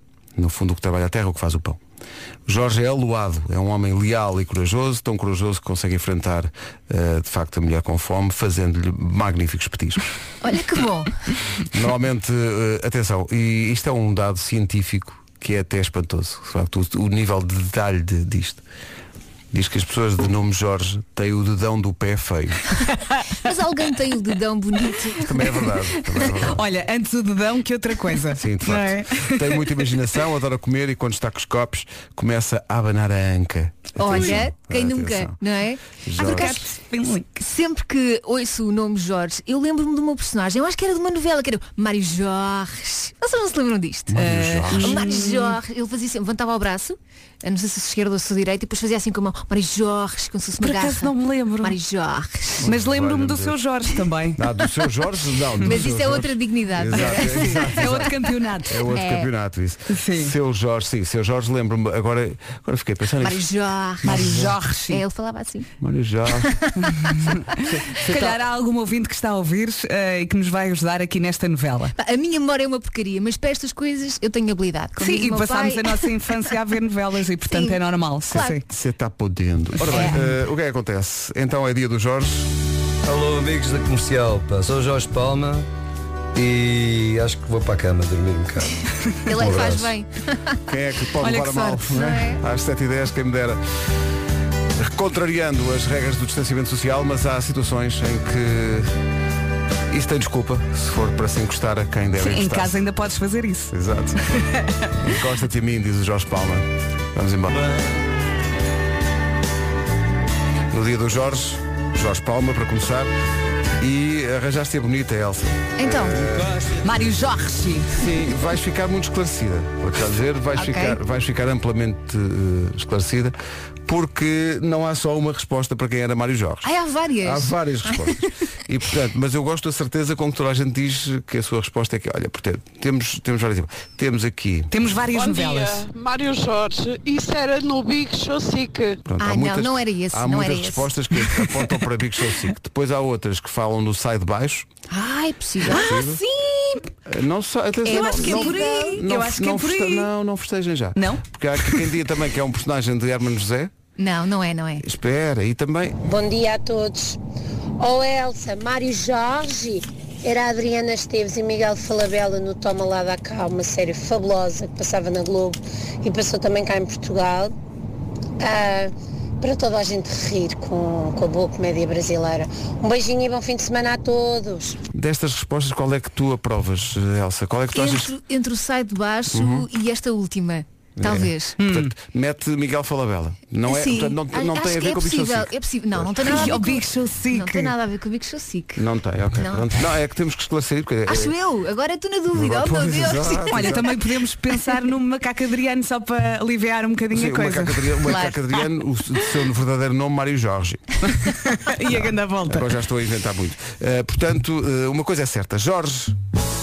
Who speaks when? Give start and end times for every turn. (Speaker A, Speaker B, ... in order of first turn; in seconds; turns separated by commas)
Speaker A: 0.4-1.8, Speaker A: 2.5-10.0, Speaker B: 10.4-11.1, Speaker A: 11.7-18.6, Speaker A: 19.5-22.6, Speaker B: 23.4-25.3, Speaker A: 25.2-26.6, Speaker C: 26.2-29.7, Speaker A: 28.4-35.4, Speaker B: 34.0-36.5, Speaker C: 34.1-34.4, Speaker A: 36.0-36.6, Speaker C: 36.2-37.2, Speaker B: 37.4-44.2, Speaker A: 44.1-45.0, Speaker C: 44.2-45.6, Speaker B: 44.7-52.7, Speaker C: 50.6-51.8, Speaker A: 52.6-53.5, Speaker C: 52.6-54.4, Speaker A: 54.4-63.4, Speaker B: 55.6-58.0, Speaker C: 56.9-58.8, Speaker B: 58.9-59.3, Speaker C: 59.9-60.3, Speaker B: 63.2-65.7, Speaker A: 64.0-64.5, Speaker C: 64.0-65.0, Speaker A: 65.8-66.5, Speaker C: 66.9-71.9, Speaker A: 67.6-68.3, Speaker B: 72.0-76.5, Speaker C: 75.0-78.6, Speaker B: 77.5-78.6, Speaker A: 78.3-82.5, Speaker C: 79.8-80.3, Speaker B: 79.8-80.2, Speaker D: 83.0-85.7, Speaker D: 86.3-88.8, Speaker B: 89.2-90.6, Speaker D: 89.3-89.9, Speaker A: 90.7-93.6, Speaker C: 91.2-91.8, Speaker B: 91.9-92.4, Speaker A: 94.8-98.9, Speaker A: 99.9-102.8, Speaker C: 102.2-103.7, Speaker A: 103.7-104.2, Speaker C: 104.3-104.9, Speaker A: 105.0-107.6, Speaker A: 110.7-113.1, Speaker A: 113.8-116.7, Speaker B: 115.8-116.3, Speaker C: 116.8-117.9, Speaker A: 117.9-123.3, Speaker B: 120.5-121.0, Speaker A: 123.8-126.7, Speaker B: 126.6-128.1, Speaker A: 127.2-134.7, Speaker C: 134.7-135.8, Speaker E: 135.1-139.0, Speaker A: 139.0-144.7, Speaker B: 139.2-140.9, Speaker B: 144.9-146.0, Speaker C: 145.7-146.9, Speaker A: 145.7-146.2, Speaker A: 147.1-153.7, Speaker B: 147.8-149.0, Speaker C: 147.9-150.1, Speaker C: 151.0-151.8, Speaker B: 154.0-154.8, Speaker A: 154.8-156.0, Speaker F: 156.0-157.2, Speaker F: 157.8-167.5, Speaker F: 168.4-174.8, Speaker A: 174.9-178.1, Speaker B: 177.7-181.6, Speaker A: 179.3-179.7, Speaker A: 181.0-186.3, Speaker C: 181.6-181.9, Speaker B: 183.7-189.6, Speaker C: 186.2-187.7, Speaker A: 188.8-191.3, Speaker B: 191.1-193.8, Speaker A: 192.3-193.9, Speaker C: 193.5-198.0, Speaker A: 197.1-201.0, Speaker B: 198.1-198.4, Speaker C: 201.1-202.7, Speaker A: 201.9-206.1